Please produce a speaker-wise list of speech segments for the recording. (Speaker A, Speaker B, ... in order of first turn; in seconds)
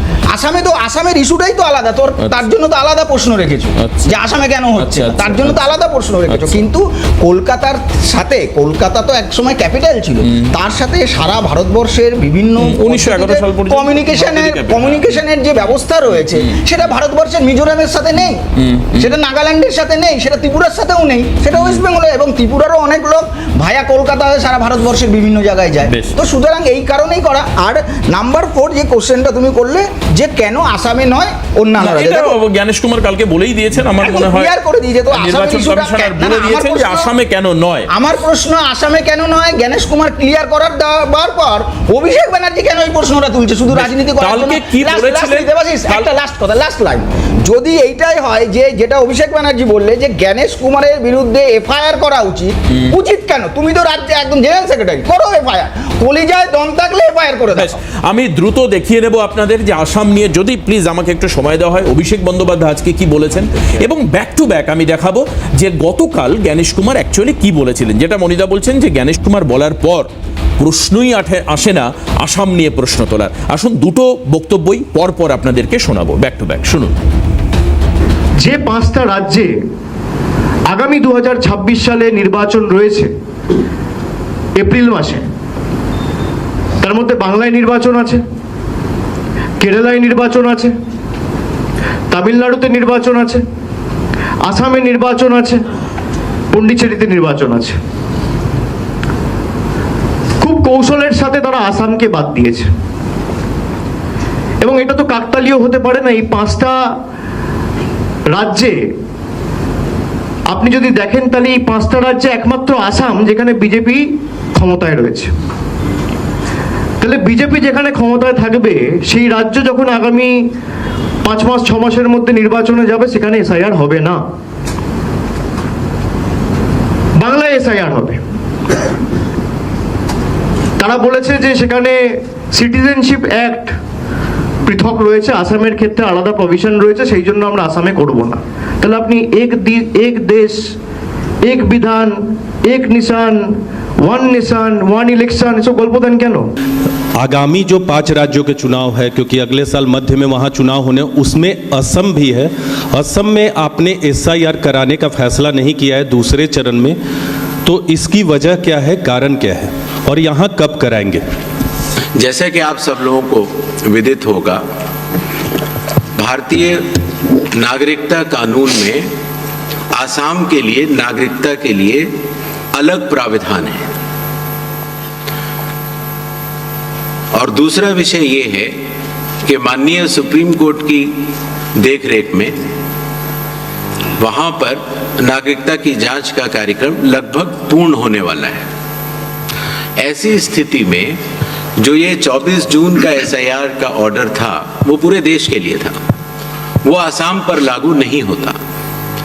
Speaker A: 0.3-18.4, 19.0-32.4, 34.0-37.1, 37.9-57.7
Speaker B: 3.8-4.1, 4.8-5.7, 6.3-6.7, 12.6-15.2, 16.1-16.6, 18.6-19.1, 21.5-21.8, 25.8-26.1, 31.8-34.5, 35.1-37.9, 43.7-46.1, 57.5-77.0
Speaker C: 78.4-79.5, 80.7-83.1, 84.5-85.2, 86.8-88.2, 89.6-90.7, 92.1-93.4, 94.4-95.6, 96.5-97.8, 100.4-102.7, 104.6-106.8, 108.3-108.8, 110.5-115.3, 117.0-120.3, 121.2-124.2, 127.2-128.2, 130.8-132.0, 132.5-133.8, 134.7-140.7, 141.4-146.5
Speaker D: 147.2-157.0, 157.6-161.2
Speaker E: 162.2-164.6, 166.2-166.9, 167.5-169.1, 169.9-172.1, 172.7-173.9, 177.3-178.7, 179.4-181.1, 181.8-182.6, 184.2-188.6, 190.0-191.2, 191.8-196.0, 196.8-198.6